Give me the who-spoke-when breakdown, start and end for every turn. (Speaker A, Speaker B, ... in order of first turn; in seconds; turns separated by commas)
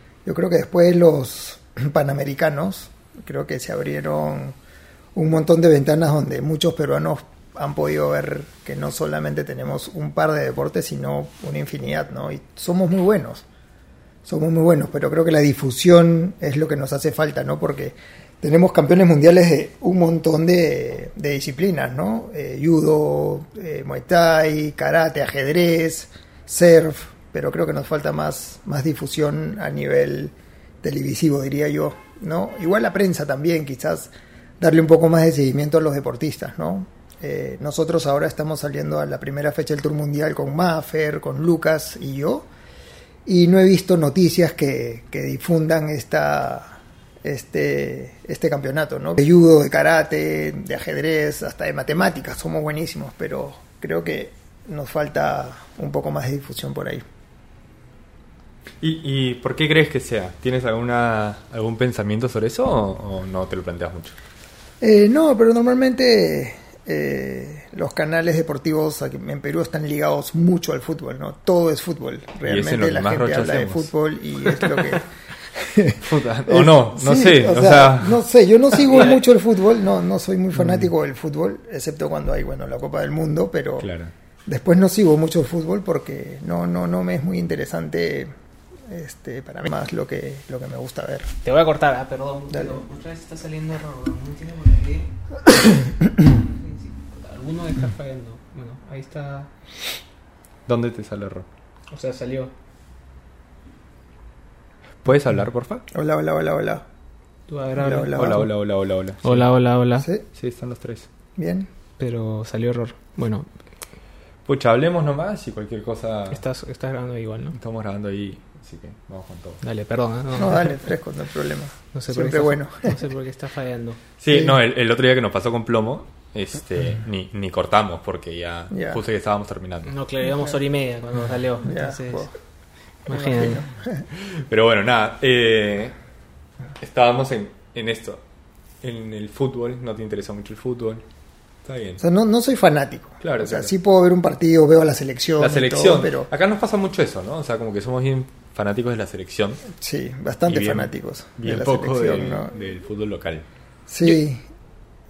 Speaker A: 0.2-4.6, Speaker A: 5.2-13.5, Speaker A: 14.2-42.5, Speaker A: 43.3-57.0, Speaker B: 58.8-64.2, Speaker A: 64.8-83.9, Speaker B: 72.5-75.0, Speaker B: 76.0-78.2, Speaker B: 80.6-80.9, Speaker B: 83.8-84.1, Speaker A: 84.5-88.3, Speaker A: 88.9-91.3, Speaker C: 91.5-95.1, Speaker A: 92.5-92.8, Speaker C: 96.3-99.5, Speaker B: 100.7-101.5, Speaker C: 101.9-102.5, Speaker B: 105.0-105.8, Speaker A: 105.9-106.8, Speaker C: 107.5-108.3, Speaker A: 107.8-108.5, Speaker B: 108.1-109.5, Speaker C: 109.2-110.1, Speaker B: 110.3-111.1, Speaker A: 111.4-111.7, Speaker C: 112.0-113.5, Speaker B: 114.5-116.4, Speaker C: 116.3-117.5, Speaker B: 117.5-119.6, Speaker C: 119.6-120.7, Speaker A: 120.4-123.0, Speaker C: 121.9-124.0, Speaker B: 124.2-129.9, Speaker A: 124.3-124.6, Speaker A: 128.7-129.0, Speaker C: 129.9-132.3, Speaker A: 131.6-132.3, Speaker C: 133.1-133.6, Speaker A: 133.1-134.1, Speaker B: 134.3-135.9, Speaker B: 136.8-138.2, Speaker B: 138.8-141.0, Speaker B: 141.7-142.0, Speaker A: 142.0-146.3, Speaker B: 143.2-143.7, Speaker B: 145.4-149.7, Speaker A: 149.8-152.5, Speaker B: 150.5-153.4, Speaker A: 153.9-154.4